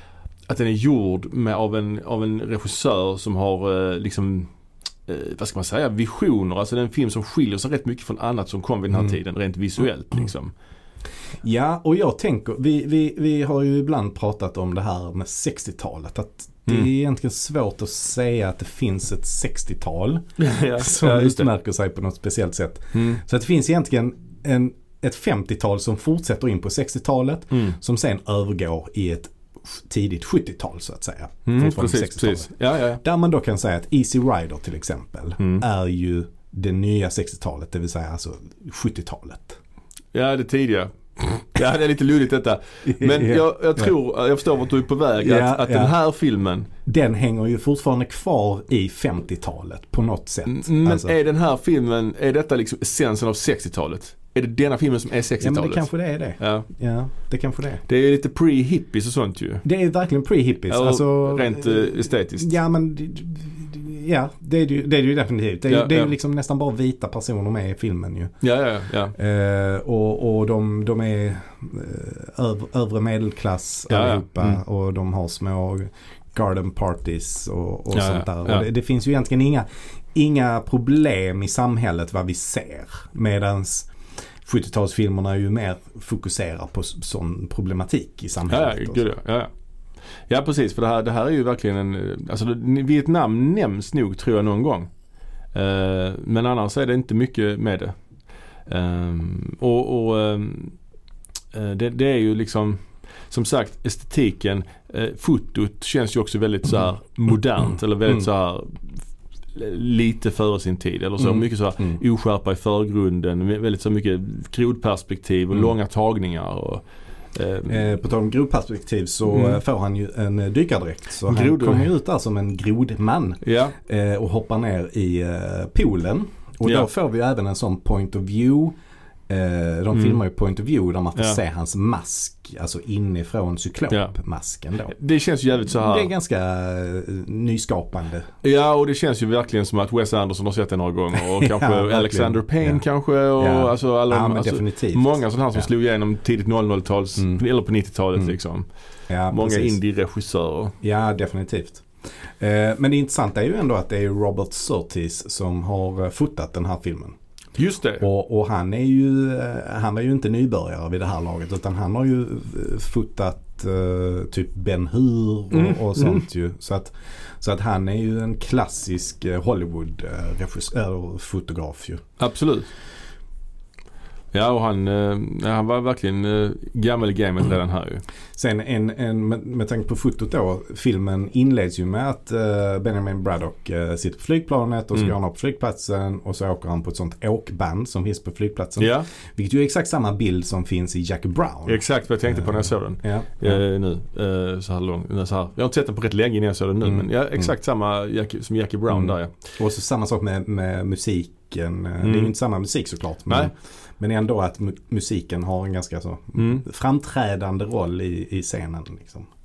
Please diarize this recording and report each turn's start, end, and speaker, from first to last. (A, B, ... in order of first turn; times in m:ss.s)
0:00.5-0:04.5 A
0:05.1-0:10.5 A
0:11.4-0:39.6 B
0:20.4-0:21.5 A
0:22.9-0:23.2 A
0:27.5-0:27.8 A
0:31.5-0:33.0 A
0:35.4-0:35.6 A
0:40.1-0:46.7 A
0:42.9-0:43.9 B
0:45.2-0:46.0 B
0:46.9-0:51.1 B
0:50.5-0:56.7 A
0:55.4-0:57.8 B
0:57.9-0:59.6 A
0:59.6-1:08.4 B
1:00.7-1:02.5 A
1:05.7-1:06.1 A
1:08.4-1:09.2 A
1:09.1-1:23.9 B
1:13.9-1:14.6 A
1:17.9-1:18.7 A
1:24.4-1:29.0 B
1:28.5-1:29.5 A
1:30.3-1:34.9 A
1:35.5-1:38.0 A
1:38.7-1:40.8 A
1:41.5-1:49.0 A
1:49.6-1:57.9 A
1:51.2-1:52.0 B
1:57.7-2:08.8 B
1:59.3-1:59.6 A
2:01.3-2:01.9 A
2:03.4-2:03.8 A
2:09.3-2:14.9 B
2:09.9-2:10.2 A
2:14.9-2:16.1 A
2:15.7-2:18.3 B
2:18.4-2:28.7 A
2:21.2-2:22.8 B
2:23.4-2:25.7 B
2:29.1-2:29.8 B
2:29.3-2:30.7 A
2:30.8-2:37.2 B
2:37.6-2:38.0 A
2:38.0-2:52.0 B
2:45.5-2:46.2 A
2:52.2-2:52.7 A
2:54.3-2:58.0 A
2:58.4-3:13.6 B
3:08.8-3:09.1 A
3:11.7-3:19.3 A
3:16.8-3:17.5 B
3:18.9-3:29.3 B
3:22.0-3:22.3 A
3:26.4-3:26.6 A